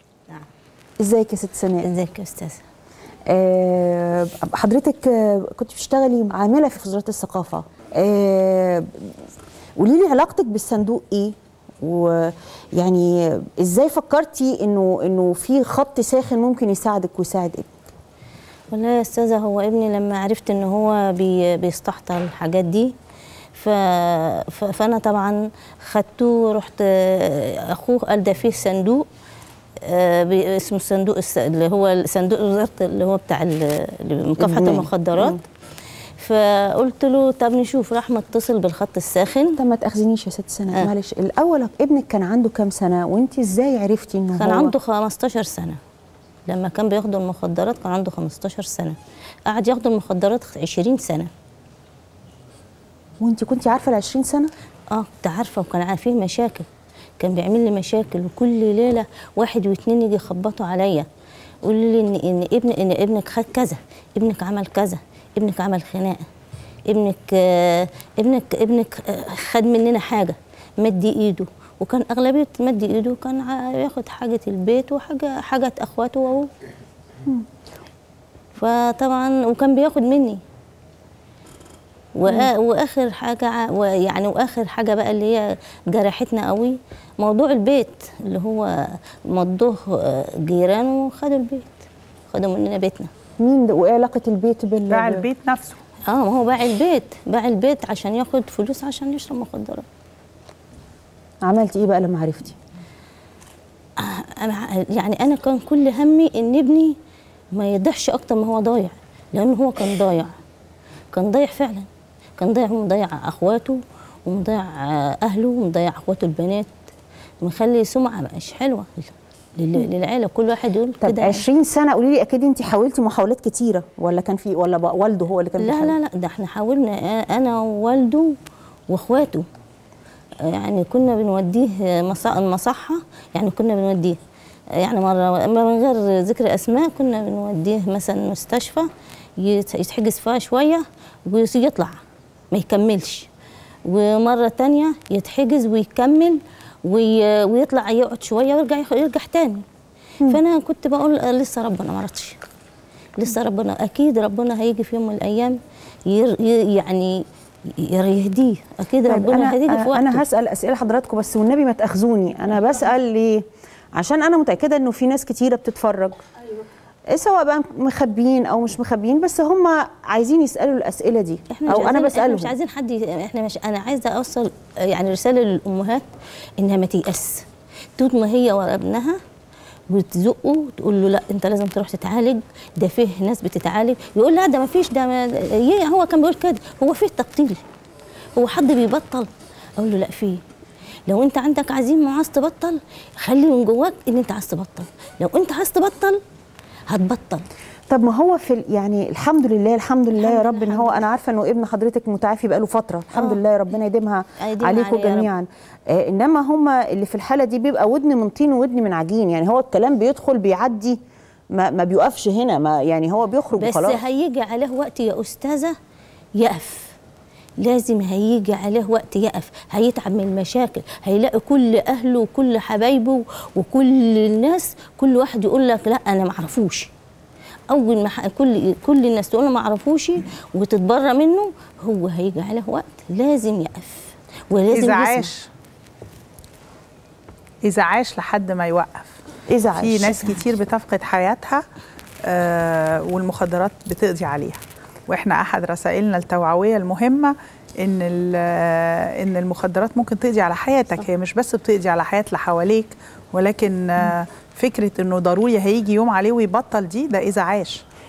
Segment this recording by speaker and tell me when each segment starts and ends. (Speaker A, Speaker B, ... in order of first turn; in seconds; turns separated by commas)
Speaker A: 1.0-1.9, Speaker B: 1.8-2.6, Speaker A: 3.2-9.1, Speaker A: 9.8-17.7, Speaker B: 18.7-22.9, Speaker B: 23.5-29.1, Speaker B: 29.8-35.4, Speaker A: 34.4-35.4, Speaker B: 36.2-39.6, Speaker A: 39.6-44.7, Speaker B: 44.3-45.8, Speaker B: 46.5-51.3, Speaker A: 53.2-54.5, Speaker B: 54.9-56.6, Speaker B: 57.2-61.1, Speaker B: 61.6-66.2, Speaker B: 66.9-76.5, Speaker B: 78.5-80.4, Speaker B: 82.1-88.7, Speaker B: 89.3-91.7, Speaker B: 92.3-93.1, Speaker A: 93.4-95.2, Speaker C: 94.9-95.8, Speaker B: 96.1-99.8, Speaker A: 101.4-102.6, Speaker B: 104.0-107.0, Speaker B: 107.5-110.3, Speaker B: 111.1-111.9, Speaker B: 112.4-116.7, Speaker B: 117.4-121.4, Speaker A: 121.0-125.9, Speaker B: 125.6-128.4, Speaker B: 128.9-129.4, Speaker B: 130.4-134.2, Speaker B: 134.8-141.9, Speaker B: 142.5-143.3, Speaker B: 143.8-149.6, Speaker B: 150.3-152.4, Speaker B: 153.2-160.2, Speaker A: 159.0-163.4, Speaker A: 163.9-166.2, Speaker A: 167.1-172.6, Speaker B: 171.5-176.0, Speaker B: 176.6-177.4, Speaker B: 178.0-179.2, Speaker B: 179.9-187.6, Speaker B: 188.3-190.4, Speaker B: 191.1-196.2, Speaker B: 196.9-197.5, Speaker A: 197.9-211.0, Speaker B: 200.1-201.0, Speaker B: 203.1-203.4, Speaker B: 204.4-205.3, Speaker A: 211.5-214.0, Speaker B: 213.6-215.7, Speaker B: 216.4-216.9, Speaker B: 217.6-226.9, Speaker B: 227.7-235.3, Speaker C: 234.7-235.5, Speaker C: 237.6-239.1, Speaker A: 239.5-240.3, Speaker C: 239.7-241.6, Speaker C: 242.2-257.8